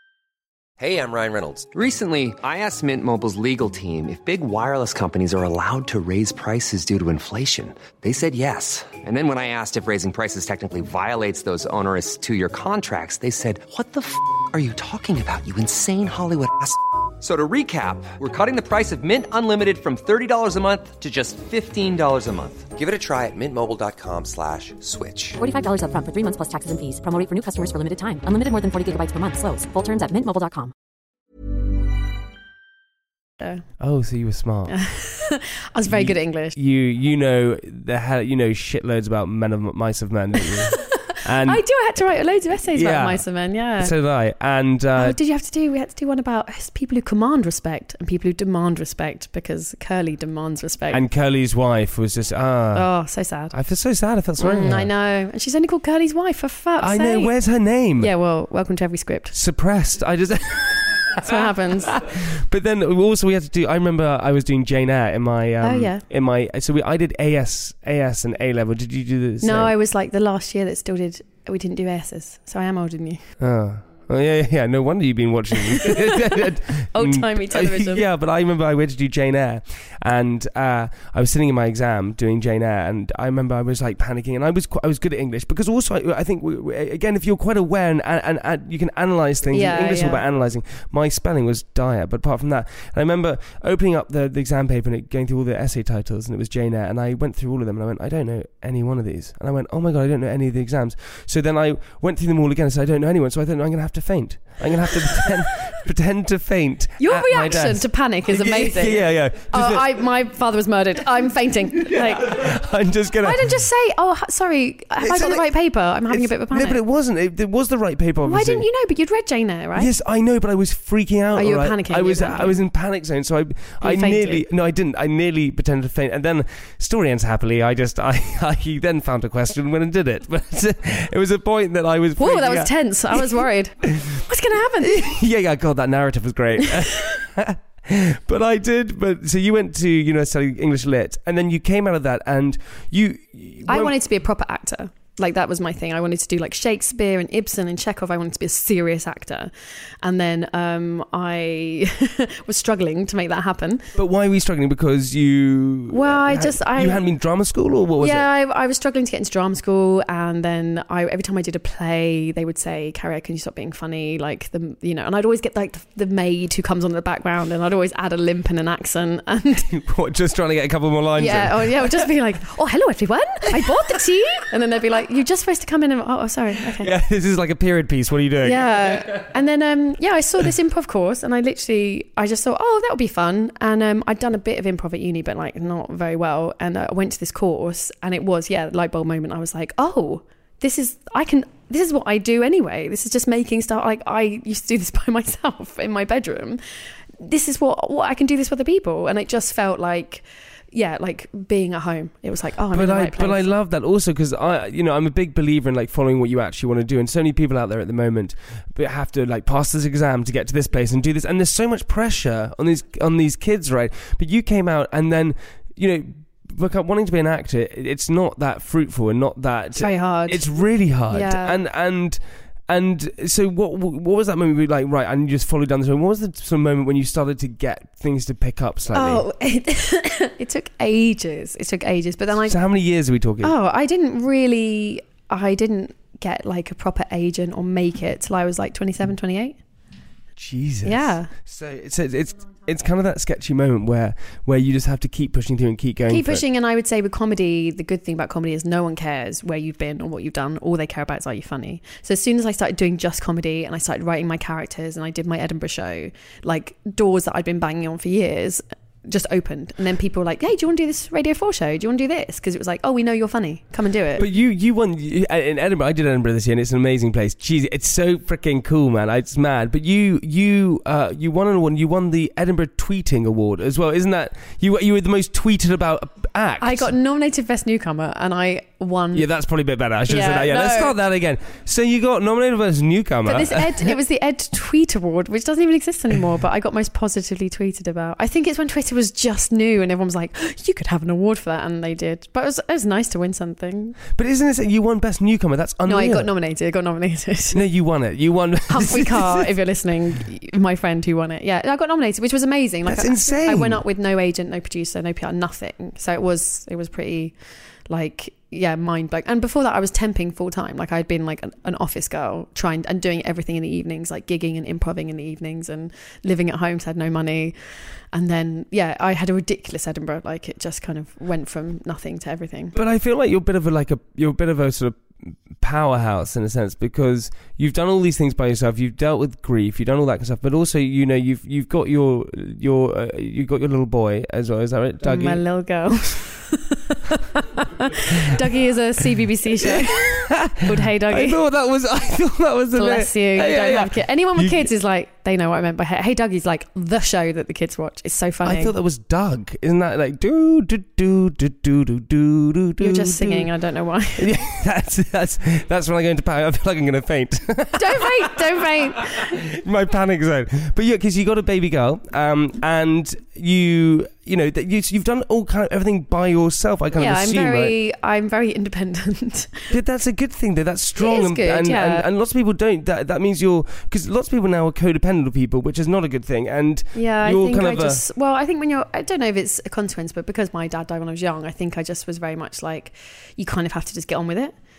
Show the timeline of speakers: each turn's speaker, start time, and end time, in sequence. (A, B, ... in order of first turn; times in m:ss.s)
0:00.8-0:25.4 A
0:25.4-0:30.7 B
0:33.8-0:34.8 C
0:34.7-0:36.5 D
0:35.9-0:41.6 C
0:40.7-0:43.9 D
0:42.7-0:43.2 C
0:43.8-0:45.2 C
0:45.0-0:51.0 D
0:50.9-0:52.9 C
0:52.7-0:53.5 D
0:53.5-0:54.9 C
0:54.4-0:57.3 D
0:56.8-0:58.1 C
0:58.0-0:59.3 D
0:59.3-1:09.7 C
1:01.2-1:02.0 D
1:05.6-1:06.0 D
1:09.4-1:13.2 D
1:13.4-1:50.0 C
1:15.6-1:18.0 D
1:29.5-1:30.2 D
1:47.0-1:52.5 D
1:51.7-1:53.6 C
1:53.2-1:56.8 D
1:55.0-1:55.5 C
1:56.1-1:58.6 C
1:58.2-1:59.9 D
1:59.8-2:14.1 C
2:01.3-2:02.6 D
2:03.8-2:04.4 D
2:12.2-2:15.0 D
2:14.8-2:24.0 C
2:23.7-2:29.5 D
2:30.0-2:33.9 D
2:33.9-2:38.3 C
2:35.9-2:37.0 D
2:38.0-2:49.7 D
2:49.6-2:52.1 C
2:51.2-2:56.9 D
2:56.7-2:59.2 C
2:58.4-3:16.6 D
3:17.2-3:23.5 D
3:22.7-3:49.2 C
3:39.8-3:40.5 D
3:41.1-3:41.6 D
3:48.9-3:52.6 D
3:52.4-3:53.5 C
3:53.4-3:59.6 D
4:00.4-4:06.4 C
4:00.8-4:01.3 D
4:06.1-4:24.2 D
4:24.2-4:36.9 C
4:36.6-4:39.3 D
4:39.1-4:43.9 C
4:40.1-4:41.0 D
4:43.2-4:54.0 D
4:54.1-4:56.3 C
4:55.8-4:57.6 D
4:57.5-4:59.5 C
4:58.7-5:07.3 D
5:02.8-5:03.8 C
5:07.9-5:17.5 D
5:18.1-5:22.8 D
5:22.7-5:25.0 C
5:25.6-5:35.4 C
5:35.0-5:41.4 D
5:38.0-5:38.4 C
5:39.6-5:44.7 C
5:42.7-5:48.7 D
5:48.4-5:53.5 C
5:52.8-5:54.3 D
5:54.2-6:07.8 C
5:57.8-5:59.3 D
6:07.0-6:09.7 D
6:09.7-6:18.0 C
6:11.0-6:12.0 D
6:16.9-6:24.5 D